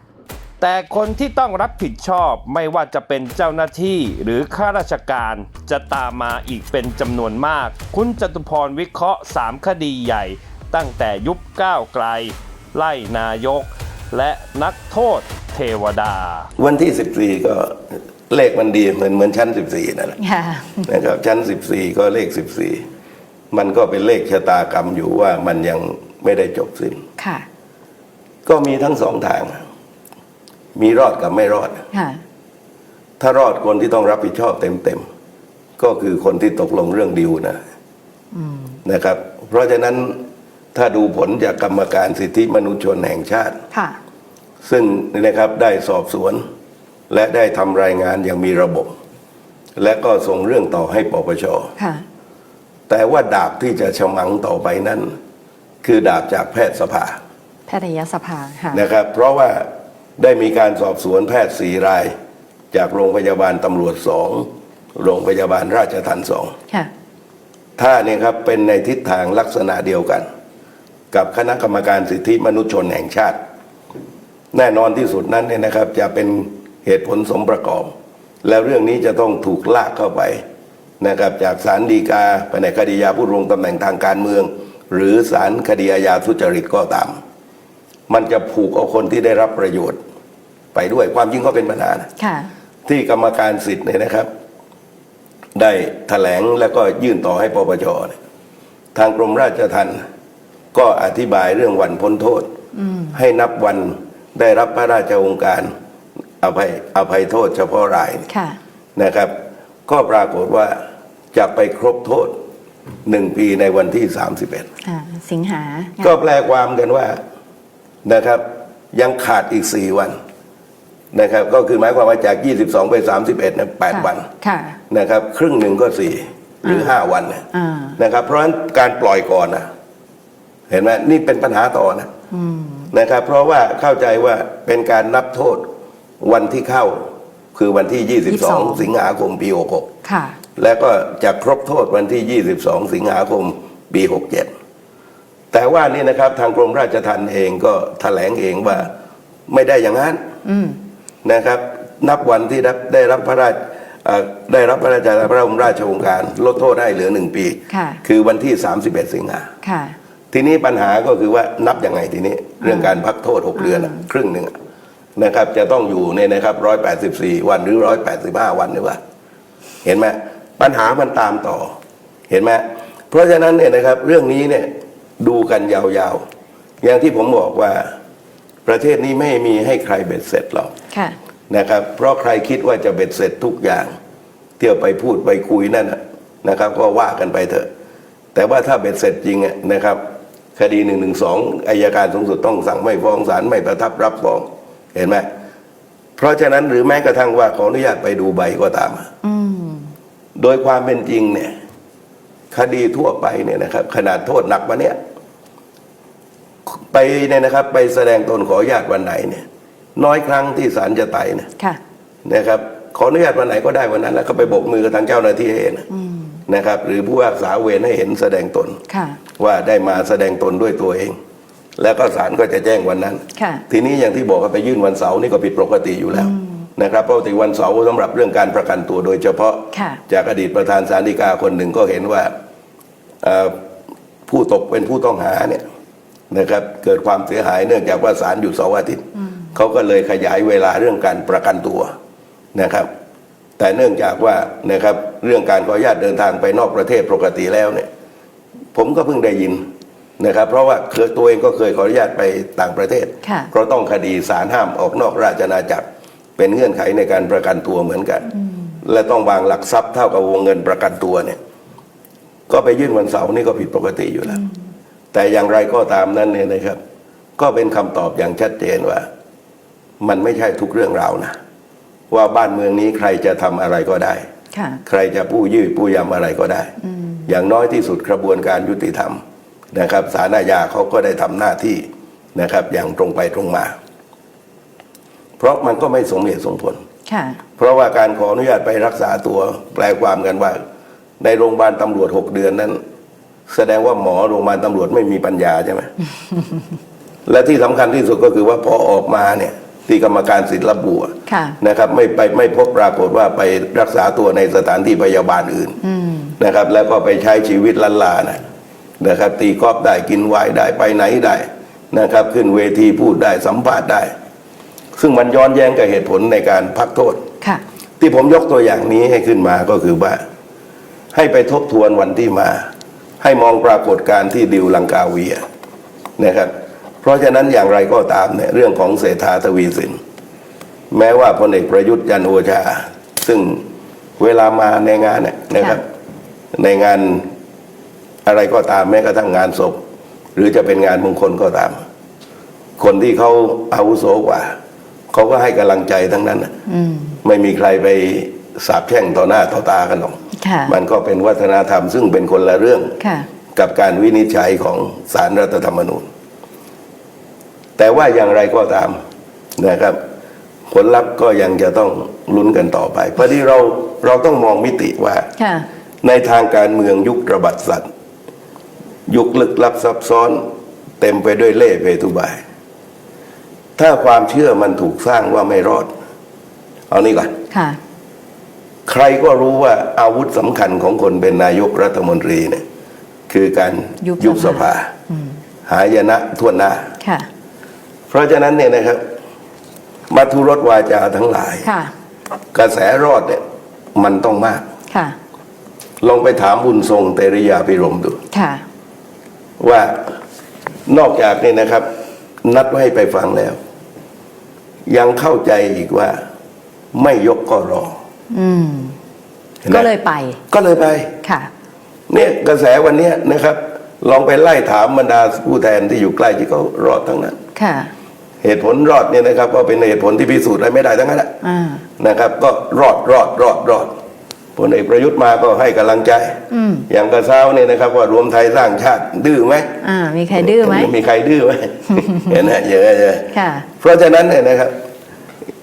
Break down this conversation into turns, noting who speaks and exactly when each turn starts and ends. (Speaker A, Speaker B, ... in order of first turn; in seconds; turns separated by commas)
Speaker A: 0.6-16.5, Speaker B: 16.6-20.1, Speaker C: 20.2-20.9, Speaker B: 20.9-22.8, Speaker B: 23.5-27.0, Speaker C: 27.2-27.4, Speaker B: 28.4-29.6, Speaker B: 30.8-31.8, Speaker C: 31.9-32.2, Speaker B: 33.2-35.0, Speaker B: 35.8-37.6, Speaker C: 38.3-38.8, Speaker B: 38.8-40.2, Speaker B: 40.7-43.6, Speaker C: 43.7-44.0, Speaker B: 44.6-46.4, Speaker B: 47.1-48.9, Speaker B: 49.8-51.7, Speaker C: 51.8-52.0, Speaker B: 52.9-55.1, Speaker B: 55.8-57.2, Speaker C: 57.7-58.9, Speaker B: 58.7-62.1, Speaker B: 62.7-66.5, Speaker B: 67.8-70.2, Speaker B: 71.1-73.4, Speaker B: 74.5-77.9, Speaker B: 78.4-80.4, Speaker B: 81.0-87.2, Speaker B: 88.1-90.0, Speaker B: 90.7-92.1, Speaker C: 92.2-92.5, Speaker B: 92.8-94.3, Speaker B: 95.5-98.1, Speaker B: 98.9-100.0, Speaker B: 100.7-102.5, Speaker C: 102.7-103.2, Speaker B: 103.1-105.7, Speaker B: 106.4-108.2, Speaker C: 108.3-108.6, Speaker B: 109.0-109.3, Speaker B: 109.9-110.8, Speaker B: 111.3-112.3, Speaker B: 113.0-114.7, Speaker C: 114.8-116.2, Speaker B: 116.0-117.2, Speaker B: 118.0-120.2, Speaker B: 121.1-124.3, Speaker C: 123.9-124.8, Speaker B: 124.9-127.4, Speaker C: 126.6-127.0, Speaker C: 127.5-128.0, Speaker B: 128.0-129.7, Speaker B: 130.7-132.1, Speaker C: 132.3-132.9, Speaker B: 132.9-135.7, Speaker B: 136.2-139.9, Speaker C: 138.2-138.9, Speaker C: 140.0-140.4, Speaker B: 140.6-144.5, Speaker B: 145.5-148.9, Speaker B: 149.5-150.2, Speaker C: 150.4-150.8, Speaker B: 151.2-159.5, Speaker C: 157.7-158.0, Speaker C: 159.6-159.9, Speaker B: 160.3-164.5, Speaker C: 162.6-162.9, Speaker C: 163.5-164.1, Speaker B: 165.2-169.0, Speaker B: 169.8-171.7, Speaker B: 172.3-176.2, Speaker B: 176.8-177.9, Speaker B: 178.7-180.7, Speaker C: 180.9-181.2, Speaker B: 181.5-183.9, Speaker B: 184.6-187.7, Speaker B: 188.3-190.0, Speaker B: 190.6-195.3, Speaker B: 196.2-199.1, Speaker C: 199.2-199.9, Speaker B: 200.3-201.5, Speaker B: 202.5-204.9, Speaker B: 206.9-209.4, Speaker B: 209.9-211.5, Speaker B: 212.2-215.8, Speaker C: 215.9-216.4, Speaker B: 216.5-218.8, Speaker C: 218.9-219.2, Speaker B: 219.4-221.2, Speaker B: 221.8-232.3, Speaker C: 223.3-223.6, Speaker C: 226.1-226.7, Speaker C: 229.7-230.0, Speaker B: 233.2-233.6, Speaker B: 234.3-235.6, Speaker B: 236.3-239.0, Speaker B: 239.5-241.9, Speaker B: 242.5-242.9, Speaker B: 243.6-247.8, Speaker B: 248.7-249.6, Speaker B: 250.2-255.8, Speaker C: 253.2-253.5, Speaker B: 256.4-258.3, Speaker B: 258.8-261.4, Speaker B: 262.5-264.4, Speaker B: 265.1-266.8, Speaker B: 267.4-269.1, Speaker B: 270.0-271.4, Speaker B: 272.1-274.2, Speaker C: 274.5-274.8, Speaker B: 274.9-276.7, Speaker C: 276.8-277.3, Speaker B: 277.3-279.2, Speaker B: 279.7-283.8, Speaker B: 285.4-286.8, Speaker C: 287.1-287.4, Speaker B: 287.6-290.6, Speaker B: 291.2-292.8, Speaker B: 293.5-295.9, Speaker B: 297.2-305.8, Speaker C: 301.3-301.6, Speaker C: 305.8-306.3, Speaker B: 306.4-308.4, Speaker B: 309.0-314.1, Speaker B: 315.0-317.2, Speaker B: 318.0-320.2, Speaker B: 321.1-322.7, Speaker B: 323.2-325.4, Speaker B: 326.2-326.5, Speaker B: 327.0-330.0, Speaker B: 330.9-333.6, Speaker B: 334.2-335.8, Speaker B: 336.5-337.3, Speaker B: 338.2-339.8, Speaker B: 340.3-341.8, Speaker B: 342.8-344.5, Speaker B: 345.1-346.5, Speaker C: 346.6-347.2, Speaker B: 347.2-352.9, Speaker C: 350.3-350.8, Speaker C: 353.0-353.3, Speaker B: 353.5-356.1, Speaker B: 357.8-359.0, Speaker B: 359.6-360.0, Speaker B: 360.7-365.3, Speaker C: 365.4-365.7, Speaker B: 366.0-367.9, Speaker B: 369.1-370.4, Speaker B: 371.0-372.4, Speaker B: 373.8-375.9, Speaker B: 376.9-377.3, Speaker C: 377.5-377.8, Speaker B: 378.9-382.6, Speaker B: 383.3-384.9, Speaker C: 384.0-385.4, Speaker B: 385.7-386.9, Speaker C: 387.0-387.3, Speaker B: 388.1-389.0, Speaker B: 390.1-391.6, Speaker C: 391.6-391.9, Speaker B: 392.5-393.4, Speaker B: 393.9-394.6, Speaker C: 394.9-395.2, Speaker B: 396.0-398.2, Speaker C: 398.3-398.6, Speaker B: 399.6-400.0, Speaker B: 400.9-401.9, Speaker B: 402.4-403.6, Speaker B: 404.9-406.1, Speaker B: 406.9-408.0, Speaker C: 408.3-409.0, Speaker B: 409.6-409.9, Speaker C: 409.7-410.4, Speaker B: 410.5-411.1, Speaker C: 411.2-411.5, Speaker B: 412.1-417.4, Speaker C: 417.5-417.9, Speaker B: 418.4-421.3, Speaker C: 421.4-421.8, Speaker B: 422.0-423.9, Speaker B: 424.6-429.7, Speaker C: 426.5-426.9, Speaker C: 429.8-430.9, Speaker B: 430.3-433.3, Speaker C: 431.9-432.3, Speaker C: 433.3-433.7, Speaker B: 433.8-434.7